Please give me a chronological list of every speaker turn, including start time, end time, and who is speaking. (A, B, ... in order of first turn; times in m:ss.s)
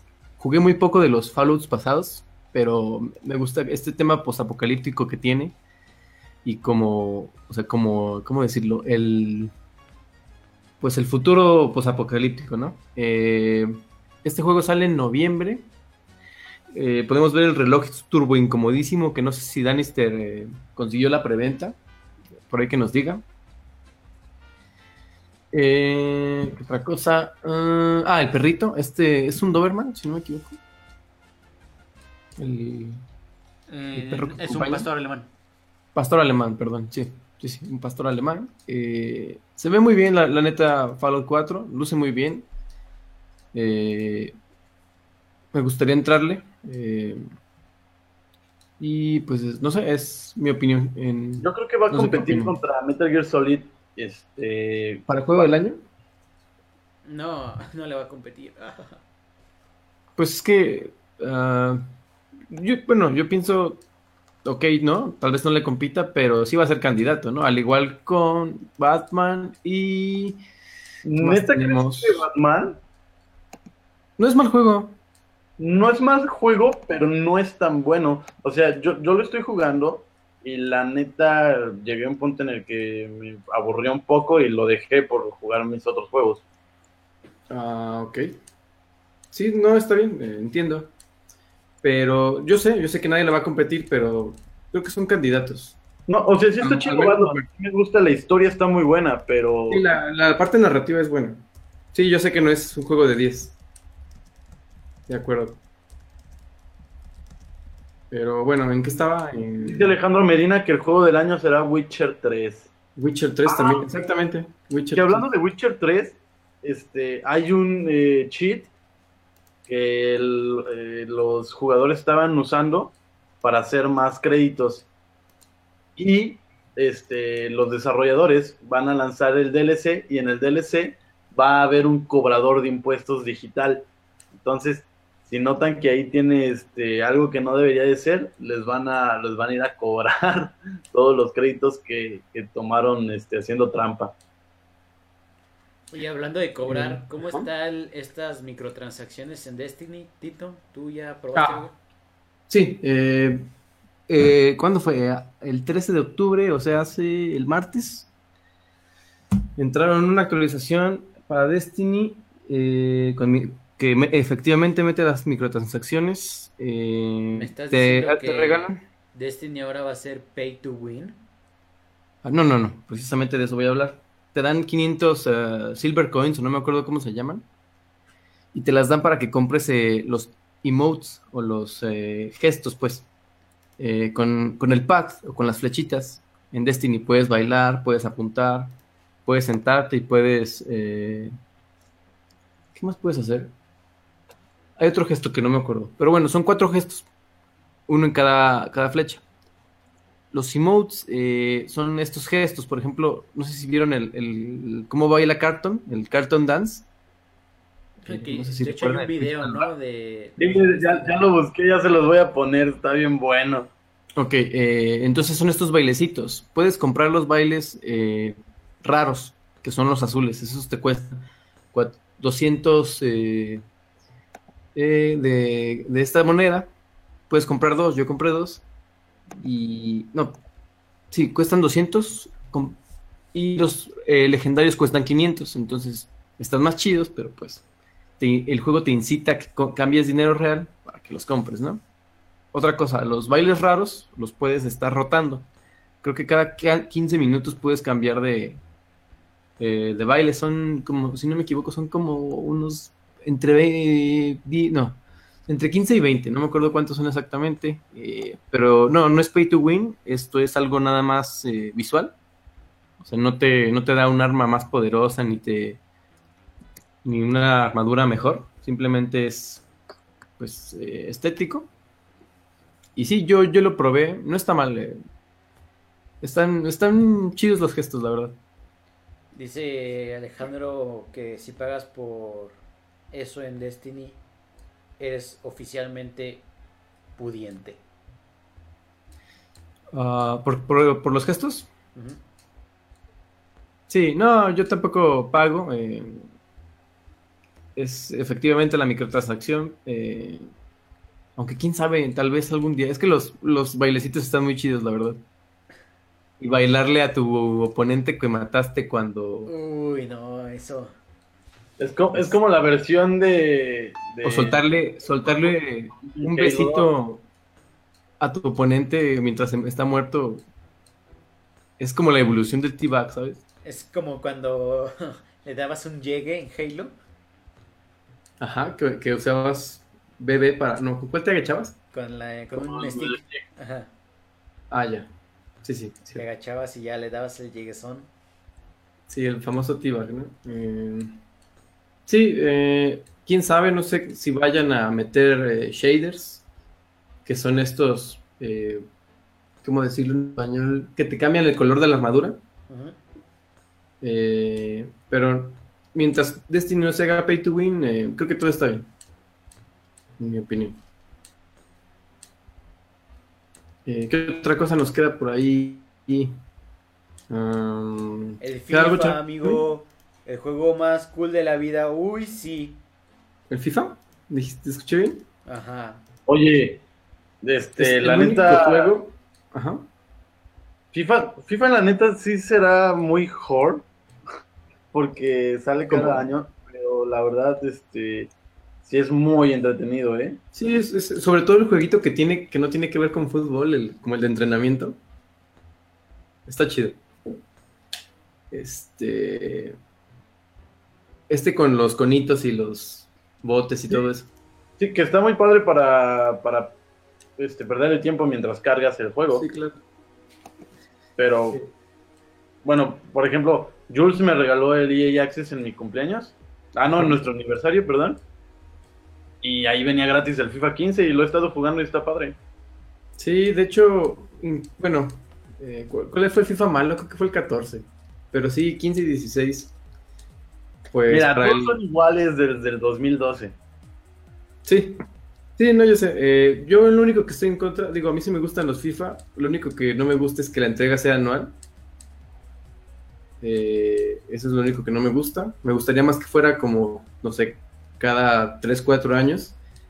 0:00.4-0:05.6 A
0:06.4-0:09.5 A
0:10.8-0:15.7 A
0:16.7-0:21.8 A
0:22.5-0:23.2 A
0:25.5-0:30.6 A
0:32.4-0:33.0 A
0:33.7-0:35.3 B
0:34.0-0:34.9 A
0:36.0-0:42.5 A
0:43.5-0:44.4 A
0:45.5-0:47.2 A
0:48.8-0:52.6 A
0:51.4-0:55.5 C
0:55.1-0:55.8 A
0:57.0-0:59.0 B
1:00.2-1:01.9 A
1:02.5-1:03.8 A
1:04.4-1:10.4 A
1:11.0-1:12.8 C
1:11.2-1:12.3 A
1:14.2-1:15.0 A
1:15.6-1:26.4 C
1:27.5-1:28.3 A
1:29.3-1:30.9 A
1:31.8-1:35.8 A
1:36.1-1:39.9 C
1:36.6-1:37.5 A
1:39.7-1:43.6 A
1:45.1-1:45.6 A
1:48.1-1:50.0 A
1:49.6-1:52.7 C
1:53.0-1:55.3 A
1:53.5-1:53.9 C
1:54.9-1:58.7 C
1:59.7-2:04.9 C
2:06.0-2:24.2 C
2:25.9-2:31.8 B
2:26.7-2:27.5 A
2:31.3-2:31.7 A
2:32.5-2:33.5 A
2:34.1-2:38.1 A
2:39.6-2:48.8 A
2:47.4-2:51.2 B
2:52.2-2:57.5 A
2:58.5-3:03.1 A
3:03.8-3:11.3 A
3:12.8-3:13.5 A
3:14.8-3:17.1 A
3:17.9-3:19.2 A
3:20.3-3:26.9 A
3:28.0-3:31.2 B
3:28.1-3:29.7 A
3:30.4-3:33.7 C
3:34.2-3:43.6 A
3:44.8-3:46.7 A
3:47.3-3:48.6 A
3:49.4-3:50.4 A
3:51.1-3:52.8 A
3:53.3-3:57.6 A
3:58.2-4:01.8 A
4:02.5-4:05.5 A
4:06.0-4:08.6 A
4:09.6-4:22.2 A
4:23.0-4:25.8 A
4:27.0-4:29.7 A
4:30.4-4:31.7 A
4:33.0-4:35.0 A
4:36.2-4:38.4 A
4:39.3-4:42.6 B
4:43.1-4:44.2 B
4:45.0-4:46.5 B
4:47.2-4:47.8 B
4:49.9-4:51.7 A
4:52.0-4:52.2 B
4:53.9-4:56.3 A
4:57.8-5:00.5 A
5:01.4-5:05.2 A
5:06.4-5:09.5 A
5:09.5-5:11.0 B
5:11.8-5:14.6 C
5:14.2-5:17.3 A
5:15.5-5:16.9 C
5:18.2-5:20.4 A
5:21.8-5:23.4 A
5:23.6-5:26.9 B
5:28.4-5:31.8 A
5:31.9-5:33.9 B
5:32.6-5:33.4 C
5:34.7-5:35.1 A
5:35.6-5:36.2 A
5:36.1-5:38.1 B
5:39.1-5:41.2 A
5:42.1-5:46.5 A
5:47.2-5:48.8 A
5:49.6-5:52.4 A
5:52.7-5:53.0 B
5:54.0-5:58.9 A
6:00.2-6:00.8 A
6:03.8-6:06.4 A
6:07.3-6:09.6 A
6:08.4-6:12.8 B
6:13.5-6:15.3 A
6:15.5-6:16.0 B
6:16.3-6:16.8 C
6:17.4-6:19.0 C
6:17.8-6:19.9 A
6:20.9-6:23.9 C
6:24.9-6:28.3 C
6:25.9-6:26.3 A
6:28.8-6:30.4 C
6:30.5-6:35.0 A
6:36.5-6:37.0 A
6:38.5-6:39.8 A
6:41.3-6:44.3 A
6:44.8-6:46.8 C
6:47.4-6:49.5 C
6:49.3-6:49.8 A
6:51.2-6:51.6 C
6:52.6-6:58.2 C
6:56.9-6:57.2 A
6:59.4-7:02.4 C
7:03.2-7:09.8 A
7:10.9-7:11.8 A
7:11.1-7:13.5 C
7:14.6-7:15.0 A
7:15.6-7:21.6 A
7:23.4-7:29.6 A